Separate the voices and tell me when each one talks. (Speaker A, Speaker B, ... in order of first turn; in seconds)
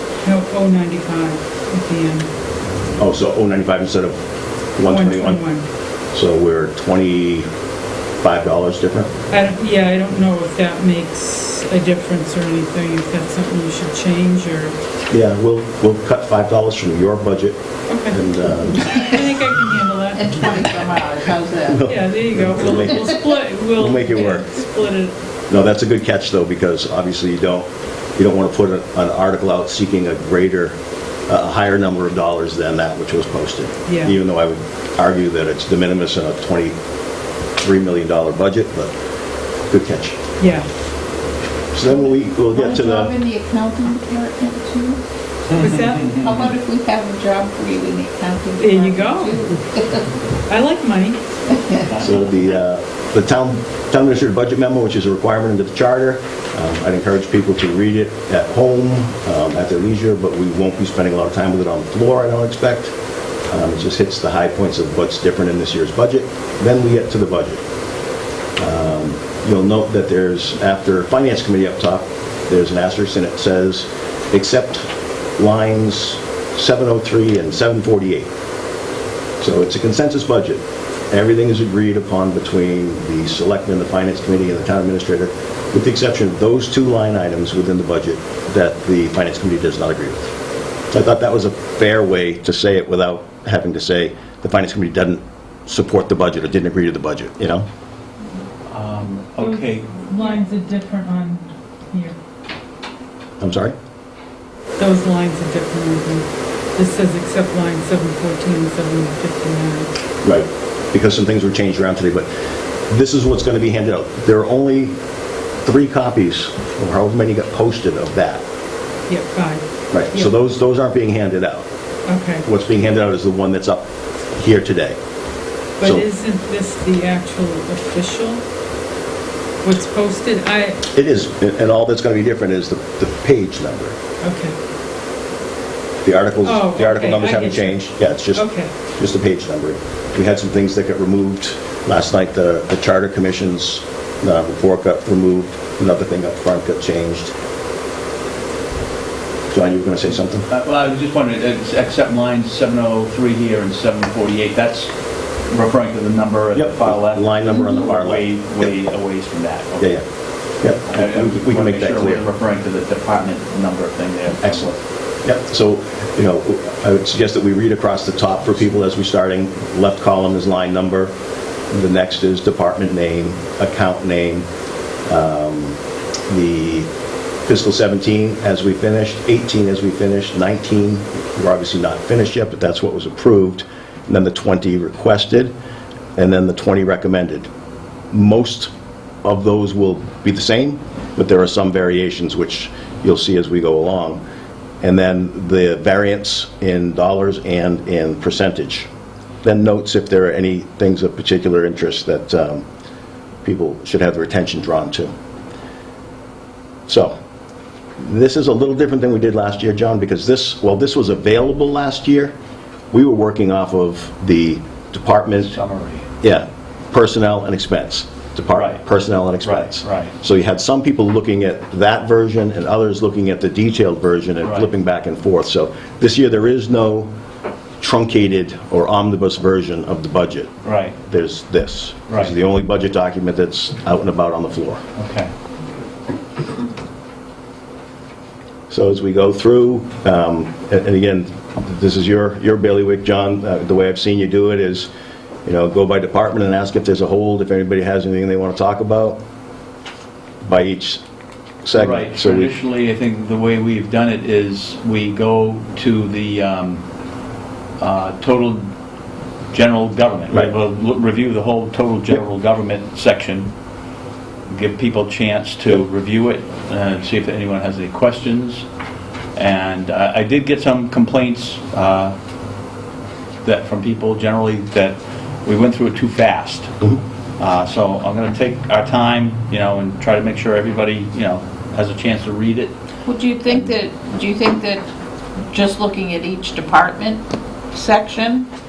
Speaker A: 0.2-2.3, 4.9-5.7, 9.3-14.8, 17.9-18.2, 18.7-20.5, 21.9-25.1, 33.9-34.2, 40.4-40.7, 45.5-46.2, 48.6-49.4, 50.5-51.2, 99.4-102.2, 104.8-109.9, 119.1-120.3, 122.1-122.5, 125.8-128.4, 129.6-130.8, 134.2-134.6, 136.4-138.7
Speaker B: 3.0-4.2, 4.8-5.4, 6.1-7.5, 8.2-9.1, 15.1-19.0, 21.7-23.1, 23.8-24.5, 25.5-30.8, 31.3-36.8, 37.6-38.9, 39.7-40.2, 41.7-43.2, 52.0-62.9, 63.5-67.6, 68.6-78.3, 79.4-90.3, 90.9-97.7, 103.4-103.8, 110.2-112.3, 112.9-115.0, 115.6-118.4, 119.9-121.7, 122.5-125.0, 130.9-134.0, 136.0-147.3, 149.5-150.5, 156.5-158.8, 159.8-160.0, 160.6-162.2, 164.4-164.7, 165.2-171.1, 171.7-174.5, 175.1-176.9, 177.4-185.5, 186.2-187.5, 188.1-188.7, 189.2-194.2, 194.8-198.9, 199.4-202.7, 203.4-205.1, 206.9-207.2, 208.0-212.3, 212.9-215.6, 216.2-227.1, 227.8-230.5, 231.1-234.8, 238.7-244.9, 245.4-249.2, 250.4-251.0, 251.6-252.5
Speaker C: 20.1-21.8, 42.5-45.0, 45.9-50.1, 51.5-51.9, 283.1-284.9, 285.5-288.5
Speaker D: 45.5-46.1, 51.8-52.4, 98.7-99.9, 150.5-154.9, 155.5-160.0, 160.8-164.8, 215.4-216.1, 218.5-218.8, 219.4-220.1, 224.4-224.7, 230.6-231.0, 232.1-232.3, 235.0-235.3, 251.7-256.8, 257.8-258.7, 259.5-263.5, 264.5-268.7, 269.4-272.1, 273.4-276.7, 277.4-282.7